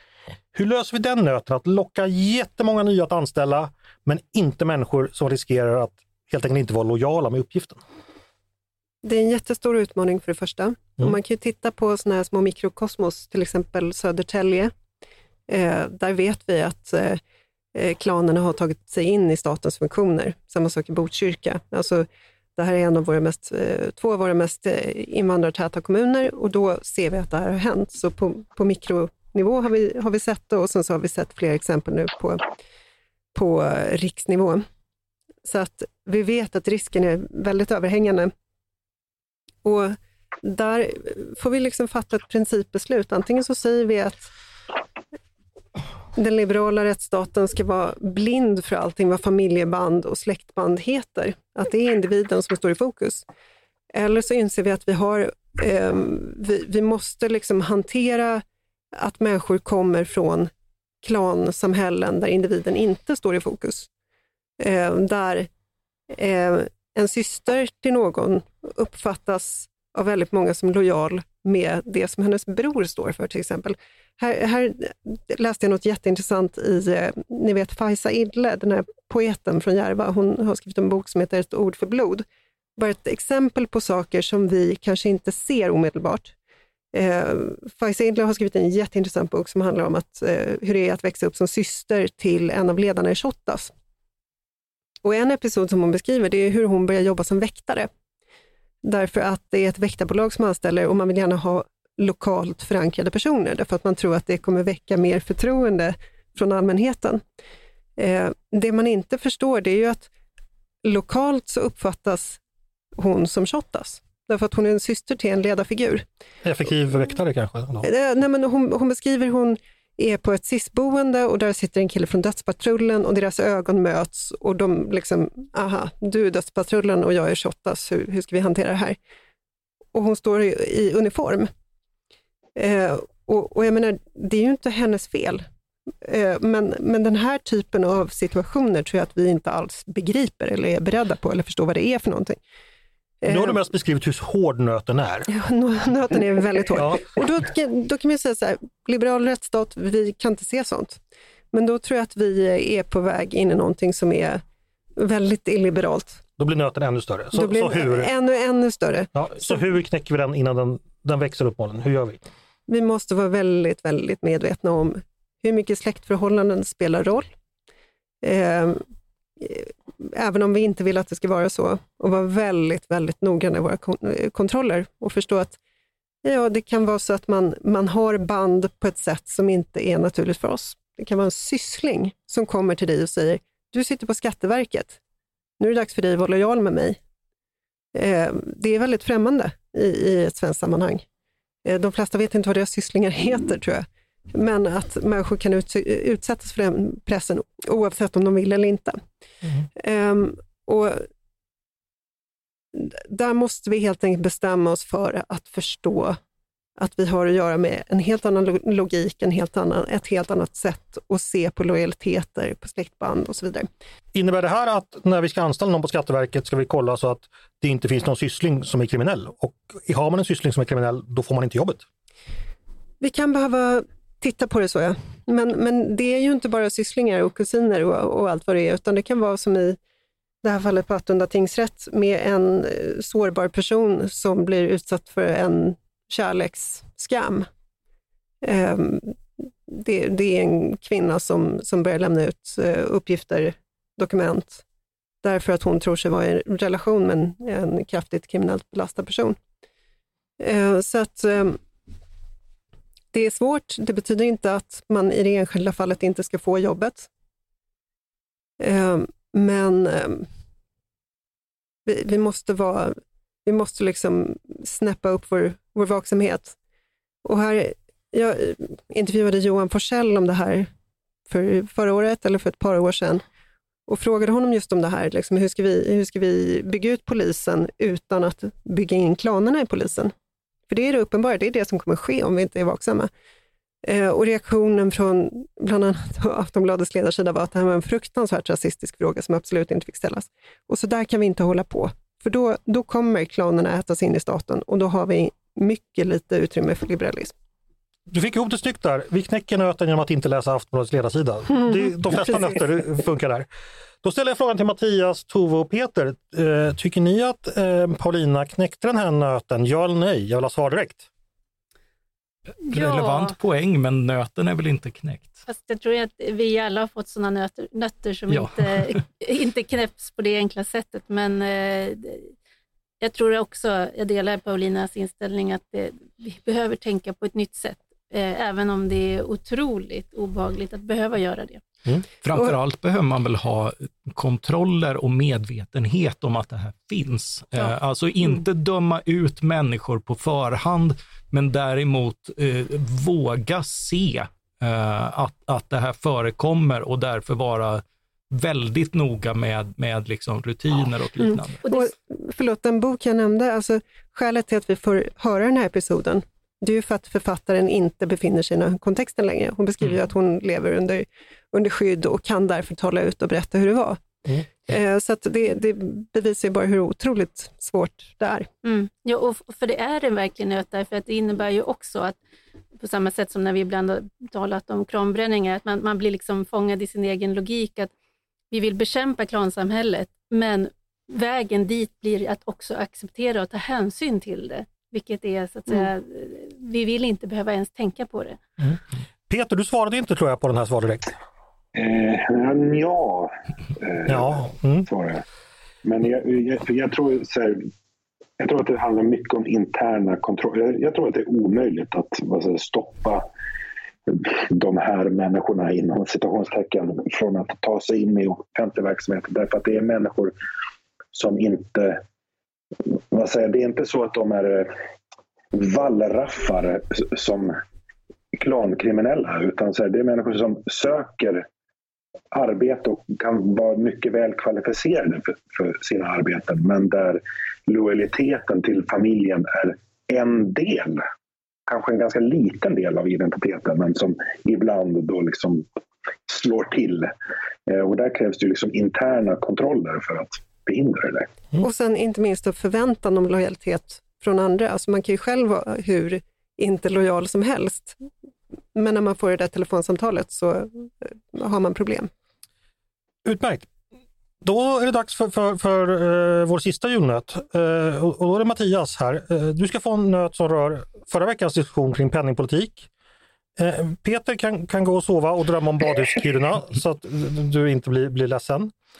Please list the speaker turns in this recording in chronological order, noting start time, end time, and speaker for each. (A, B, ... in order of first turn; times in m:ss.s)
0:00.5-0:07.8 A
0:09.0-0:14.7 B
0:15.5-0:17.2 B
0:17.7-0:32.5 B
0:33.3-0:34.6 B
0:35.4-0:38.3 B
0:39.6-0:44.3 B
0:46.1-0:53.2 B
0:53.9-0:58.4 B
0:59.0-1:00.5 B
1:01.0-1:03.9 B
1:04.6-1:05.5 B
1:06.1-1:26.3 B
1:26.9-1:33.7 B
1:35.0-1:37.9 B
1:38.8-1:47.2 B
1:48.0-1:50.1 B
1:50.8-1:52.4 B
1:53.0-1:56.0 B
1:56.4-1:57.9 A
1:57.8-2:09.0 B
2:09.9-2:11.5 B
2:12.6-2:15.4 B
2:16.0-2:22.4 B
2:23.2-2:23.6 B
2:23.2-2:25.3 A
2:25.3-2:31.0 B
2:26.8-2:27.1 A
2:31.5-2:34.4 B
2:35.0-2:36.2 B
2:36.4-2:38.1 A
2:37.3-2:39.1 B
2:39.1-2:42.2 A
2:42.7-2:47.3 B
2:48.2-2:48.8 B
2:49.4-2:55.6 B
2:56.2-3:05.0 B
3:05.6-3:07.0 B
3:07.9-3:11.0 B
3:11.6-3:19.0 B
3:19.8-3:21.1 B
3:22.7-3:26.2 B
3:26.8-3:33.7 B
3:34.1-3:41.8 A
3:43.0-3:49.8 B
3:50.4-3:57.5 B
3:58.4-4:04.6 B
4:05.2-4:09.4 B
4:10.4-4:11.6 B
4:13.1-4:17.1 B
4:18.6-4:20.3 B
4:21.8-4:26.5 B
4:27.2-4:30.7 B
4:31.3-4:33.2 B
4:33.9-4:40.1 B
4:40.7-4:43.1 B
4:43.8-4:57.3 B
4:58.1-5:03.5 A
5:04.0-5:11.1 A
5:12.6-5:13.3 C
5:12.7-5:15.4 D
5:15.5-5:22.3 C
5:18.3-5:19.0 D
5:23.0-5:31.6 C
5:32.2-5:51.6 D
5:51.2-6:04.0 B
5:51.6-5:51.9 C
6:04.7-6:08.5 B
6:08.6-6:12.2 C
6:12.8-6:17.9 C
6:18.5-6:28.4 C
6:29.3-6:31.1 A
6:31.7-6:35.2 E
6:34.1-6:34.9 A
6:35.8-6:37.7 E
6:38.4-6:43.2 E
6:44.1-6:50.3 E
6:51.1-6:52.0 E
6:52.9-6:54.8 E
6:55.5-6:57.6 E
6:58.3-7:01.4 E
7:02.3-7:11.0 E
7:11.7-7:15.6 E
7:16.3-7:17.1 E
7:17.7-7:21.3 E
7:21.6-7:28.0 B
7:28.7-7:32.1 B
7:33.2-7:33.7 A
7:34.4-7:42.9 A
7:43.6-7:48.7 A